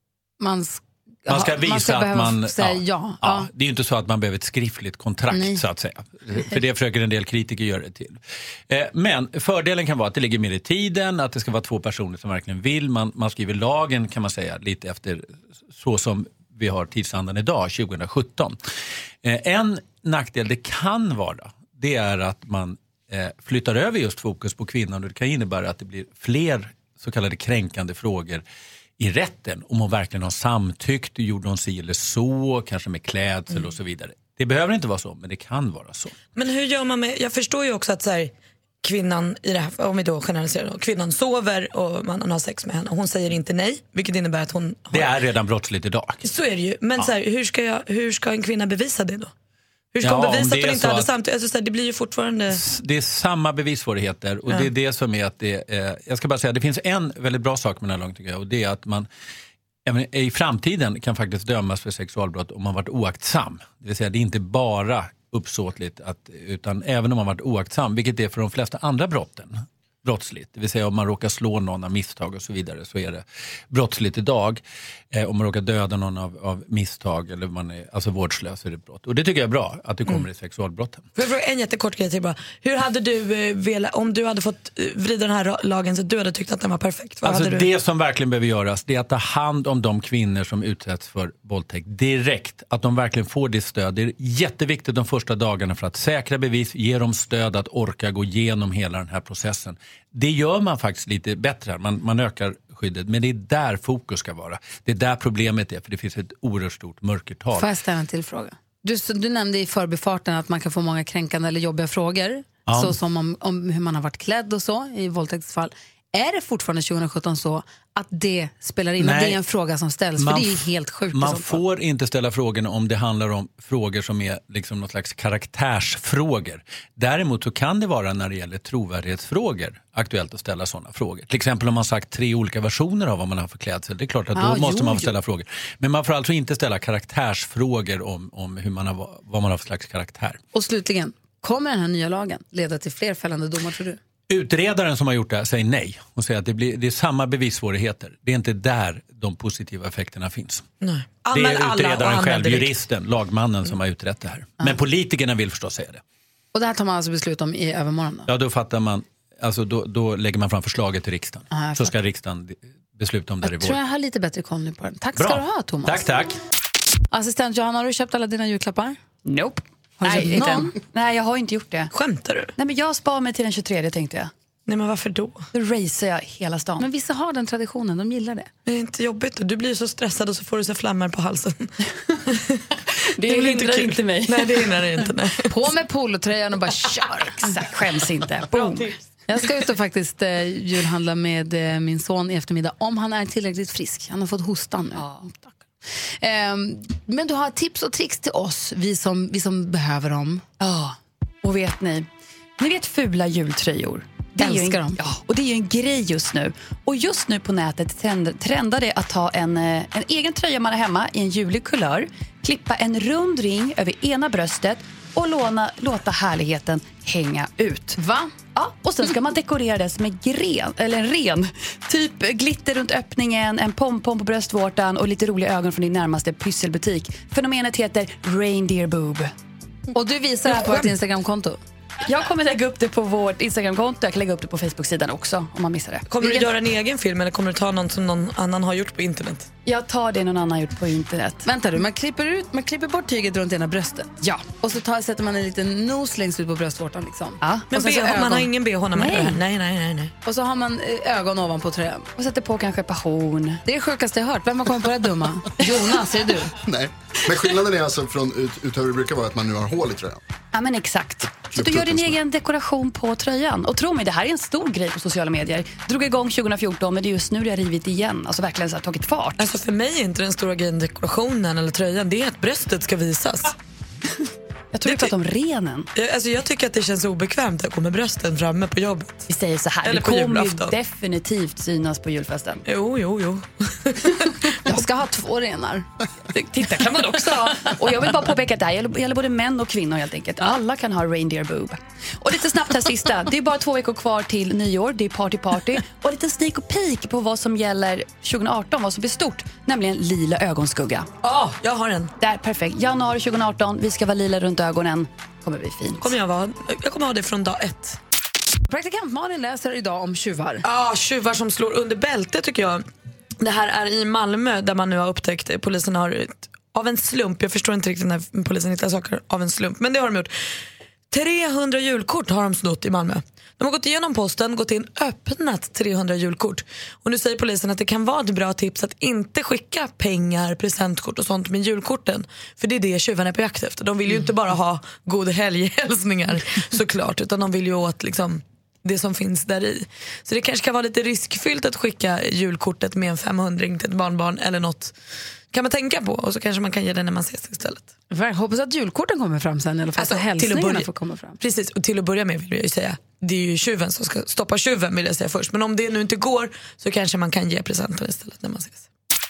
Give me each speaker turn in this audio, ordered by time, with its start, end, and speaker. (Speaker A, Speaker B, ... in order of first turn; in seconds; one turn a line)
Speaker A: 0.4-3.5
Speaker B: 1.3-18.6
Speaker A: 5.3-5.6
Speaker B: 19.2-28.4
Speaker B: 29.0-36.1
Speaker C: 36.4-38.3
Speaker C: 38.8-45.2
Speaker B: 44.9-46.2
Speaker C: 46.2-49.3
Speaker C: 49.9-52.6
Speaker B: 50.0-51.1
Speaker B: 52.5-59.1
Speaker B: 59.9-81.0
Speaker C: 81.2-87.7
Speaker B: 87.2-107.7
Speaker A: 107.5-121.6
Speaker B: 112.7-113.0
Speaker B: 119.0-119.4
Speaker B: 120.2-140.4
Speaker A: 134.3-135.1
Speaker A: 140.5-144.0
Speaker B: 144.3-150.7
Speaker C: 150.8-152.7
Speaker B: 151.3-156.0
Speaker A: 156.5-158.3
Speaker B: 158.3-163.8
Speaker A: 161.5-161.9
Speaker A: 163.4-166.1
Speaker B: 165.2-166.4
Speaker A: 167.1-169.0
Speaker D: 169.2-171.9
Speaker A: 170.0-170.7
Speaker C: 171.9-172.5
Speaker D: 172.6-174.3
Speaker C: 174.7-175.4
Speaker D: 175.5-176.8
Speaker A: 176.8-178.5
Speaker C: 178.7-181.7
Speaker C: 182.3-182.6
Speaker C: 183.2-185.5
Speaker A: 183.3-184.1
Speaker A: 185.5-187.5
Speaker D: 187.4-188.8
Speaker C: 188.5-188.9
Speaker A: 189.3-195.6
Speaker D: 194.9-195.3
Speaker A: 196.2-200.4
Speaker D: 200.6-202.1
Speaker D: 202.6-229.3
Speaker A: 204.4-205.0
Speaker A: 217.9-218.3
Speaker A: 229.9-231.6
Speaker D: 232.0-236.1
Speaker C: 236.1-239.5
Speaker D: 239.7-241.5
Speaker A: 241.4-248.5
Speaker D: 247.4-247.7
Speaker C: 247.7-250.1
Speaker A: 250.2-252.1
Speaker D: 252.2-253.6
Speaker A: 253.6-256.5
Speaker E: 256.6-260.2
Speaker D: 260.5-269.5
Speaker E: 261.5-262.2
Speaker C: 269.4-273.6
Speaker D: 274.7-275.9
Speaker C: 274.8-275.1
Speaker C: 275.9-279.3
Speaker D: 279.3-282.6
Speaker C: 279.8-280.7
Speaker C: 282.7-284.7
Speaker A: 284.7-285.9
Speaker C: 286.4-287.4
Speaker D: 286.5-301.1
Speaker C: 301.2-302.1
Speaker D: 302.2-306.1
Speaker C: 306.0-308.0
Speaker A: 308.7-310.6
Speaker C: 310.6-312.8
Speaker C: 313.4-320.3
Speaker C: 321.1-344.9
Speaker C: 345.5-347.9
Speaker A: 348.1-351.4
Speaker C: 350.0-350.9
Speaker C: 351.4-358.8